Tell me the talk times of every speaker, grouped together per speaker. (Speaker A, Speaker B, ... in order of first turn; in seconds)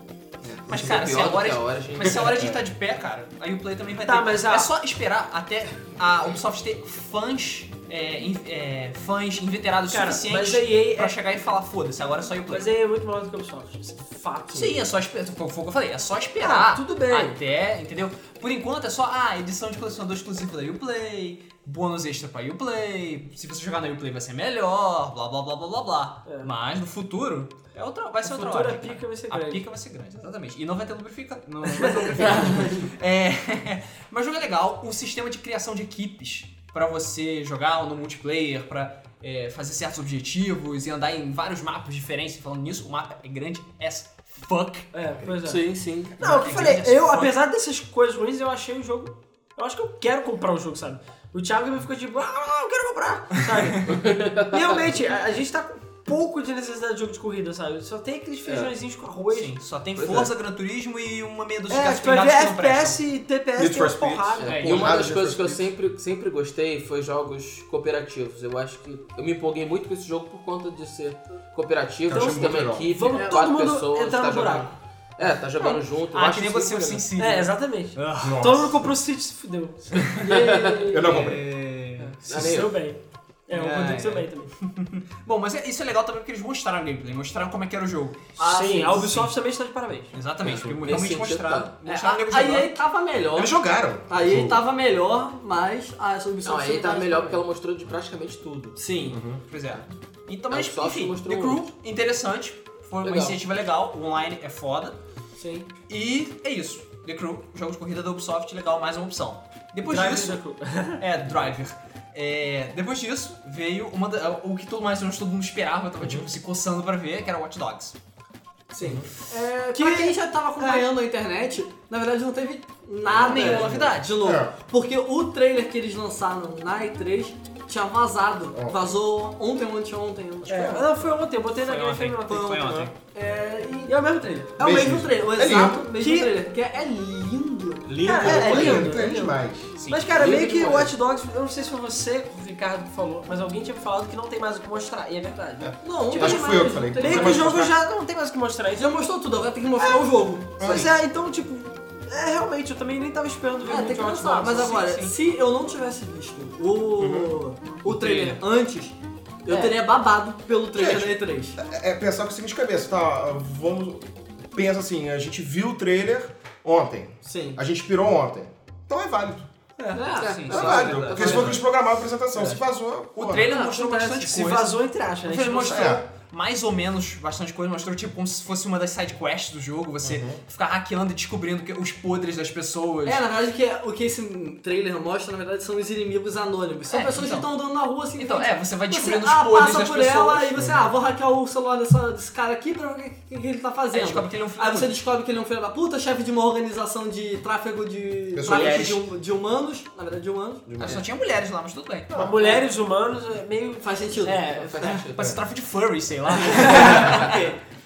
Speaker A: 0.4-2.3, 45.4-46.1, 53.8-54.7, 58.4-58.7, 60.0-60.3, 64.4-77.1, 80.1-80.9, 82.2-82.8, 90.4-91.7, 96.4-98.8, 100.5-101.7, 103.0-103.4, 105.4-105.7, 140.1-140.9, 170.0-171.6, 204.5-205.3
Speaker B: 0.7-12.7, 14.5-44.9, 46.2-47.4, 59.3-63.0, 64.4-64.9, 75.6-78.6, 80.0-80.2, 81.0-82.1, 83.5-89.3, 90.1-92.7, 99.5-105.0, 105.9-110.4, 111.0-117.9, 123.2-124.2, 131.6-132.9, 137.9-138.6, 139.8-140.2, 154.5-155.1, 170.1-171.6, 173.1-183.2, 186.9-187.5, 188.2-190.5, 193.9-194.9, 198.4-199.0, 200.8-202.2, 204.8-207.3
Speaker C: 2.2-2.6, 63.5-65.7, 72.1-72.9, 78.2-78.9, 80.9-81.4, 93.3-94.6, 99.1-99.4, 116.0-116.2, 118.8-119.1, 123.1-124.5, 128.5-128.8, 134.6-135.9, 138.0-139.7, 145.6-147.7, 150.6-150.9, 157.0-157.4, 160.8-169.4, 170.5-173.5, 175.6-176.0, 180.0-180.4, 190.6-190.9, 198.3-199.0, 200.7-201.0, 202.1-202.4
Speaker D: 4.0-4.7, 9.9-11.2, 12.5-14.8, 16.4-17.4, 26.2-26.5, 28.2-29.6, 31.8-32.3, 44.9-45.6, 46.2-59.5, 61.7-65.0, 72.1-74.7, 77.2-81.2, 82.0-84.5, 88.4-90.1, 109.8-111.0, 119.7-120.9, 130.4-132.8, 133.9-134.6, 136.0-136.3, 138.0-149.0, 149.8-150.1, 150.6-154.8, 159.5-159.7, 173.5-176.0, 202.1-204.9
Speaker E: 32.2-32.9, 73.1-73.4, 80.2-81.1, 88.4-89.0, 91.8-97.4, 98.8-99.2, 118.7-130.8, 132.3-139.0, 145.8-147.6, 148.8-150.9, 153.6-161.6, 167.2-167.6, 169.9-170.3, 173.5-173.9, 183.1-200.6, 202.4-202.6, 203.8-204.5, 206.5-207.6